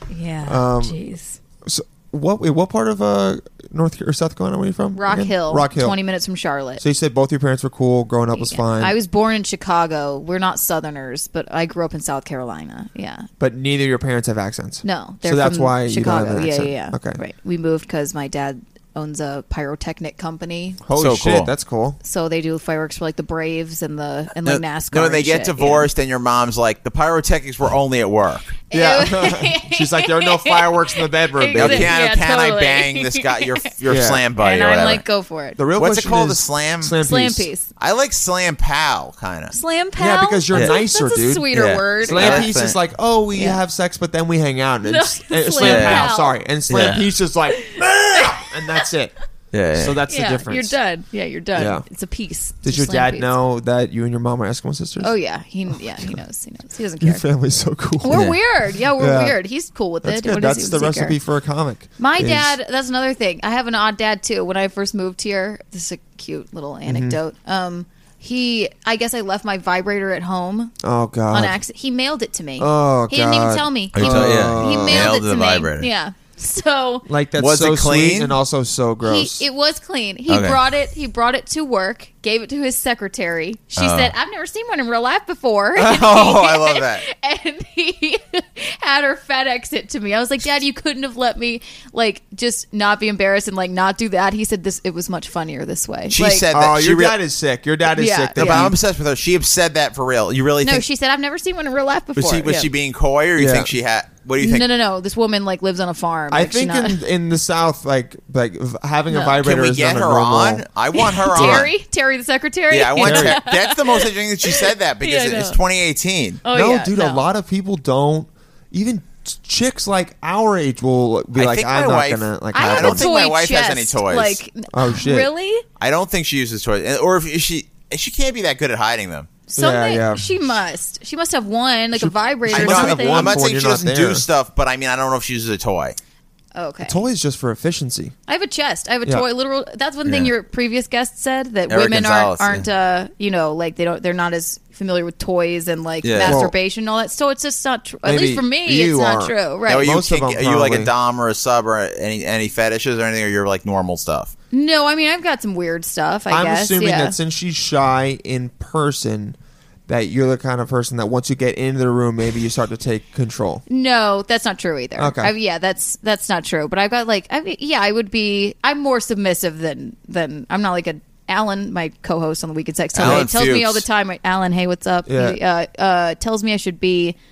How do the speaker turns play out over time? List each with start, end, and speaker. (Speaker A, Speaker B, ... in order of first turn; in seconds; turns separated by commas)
Speaker A: 0.1-1.4, Speaker B: 0.4-1.0, Speaker B: 1.6-6.0, Speaker A: 5.0-6.8, Speaker B: 6.8-8.9, Speaker A: 8.3-13.3, Speaker B: 13.4-17.2, Speaker A: 14.8-20.8, Speaker B: 20.9-22.0, Speaker C: 21.0-21.5, Speaker A: 22.0-25.9, Speaker C: 24.4-28.6, Speaker A: 28.7-33.7, Speaker B: 28.7-31.9, Speaker C: 31.5-35.0, Speaker B: 33.9-34.2, Speaker A: 34.4-35.6, Speaker B: 35.6-37.5, Speaker C: 35.8-37.0, Speaker A: 37.0-37.7, Speaker C: 37.8-39.6, Speaker A: 39.5-42.5, Speaker B: 40.0-49.1, Speaker C: 41.5-42.8, Speaker A: 43.3-43.6, Speaker A: 44.8-46.4, Speaker C: 45.6-46.1, Speaker C: 46.7-47.0, Speaker A: 47.6-48.5, Speaker C: 49.5-50.0, Speaker B: 49.7-50.8, Speaker A: 50.1-53.3, Speaker B: 51.5-51.9, Speaker B: 52.6-55.1, Speaker A: 55.0-57.2, Speaker B: 55.7-56.2, Speaker B: 57.0-59.4, Speaker A: 58.0-61.2, Speaker C: 58.1-58.4, Speaker B: 60.0-62.5, Speaker A: 62.0-70.8, Speaker B: 66.9-67.2, Speaker B: 70.8-71.6, Speaker A: 71.3-77.1, Speaker B: 72.6-75.1, Speaker C: 73.9-75.9, Speaker B: 77.1-79.4, Speaker C: 77.4-78.4, Speaker A: 79.0-96.5, Speaker C: 80.3-80.6, Speaker C: 83.8-84.1, Speaker C: 85.8-87.0, Speaker C: 96.1-97.2, Speaker B: 96.5-98.8, Speaker A: 97.9-98.7, Speaker C: 98.4-100.8, Speaker A: 100.6-102.7, Speaker C: 102.2-104.7, Speaker B: 103.4-103.7, Speaker A: 104.4-107.0, Speaker B: 106.3-110.6, Speaker A: 109.1-109.4, Speaker C: 109.4-111.7, Speaker A: 110.9-115.6, Speaker B: 111.3-111.7, Speaker C: 112.7-116.4, Speaker B: 113.0-113.4, Speaker A: 116.4-117.2, Speaker B: 116.5-123.1, Speaker C: 121.3-124.4, Speaker A: 122.5-125.6, Speaker B: 124.7-125.3, Speaker C: 125.8-129.3, Speaker A: 129.5-133.4, Speaker B: 129.6-130.3, Speaker B: 131.9-134.3, Speaker C: 132.5-136.0, Speaker A: 136.6-137.0, Speaker B: 136.8-138.2, Speaker A: 138.3-149.9, Speaker C: 140.1-140.3, Speaker C: 141.7-142.7, Speaker C: 146.0-146.4, Speaker B: 146.2-146.5, Speaker B: 148.1-150.9, Speaker C: 149.7-154.3, Speaker A: 154.5-157.2, Speaker B: 156.3-159.4, Speaker B: 159.9-163.6, Speaker A: 163.7-177.2, Speaker B: 165.0-165.3, Speaker C: 172.9-173.8, Speaker B: 173.0-173.2, Speaker B: 175.1-175.4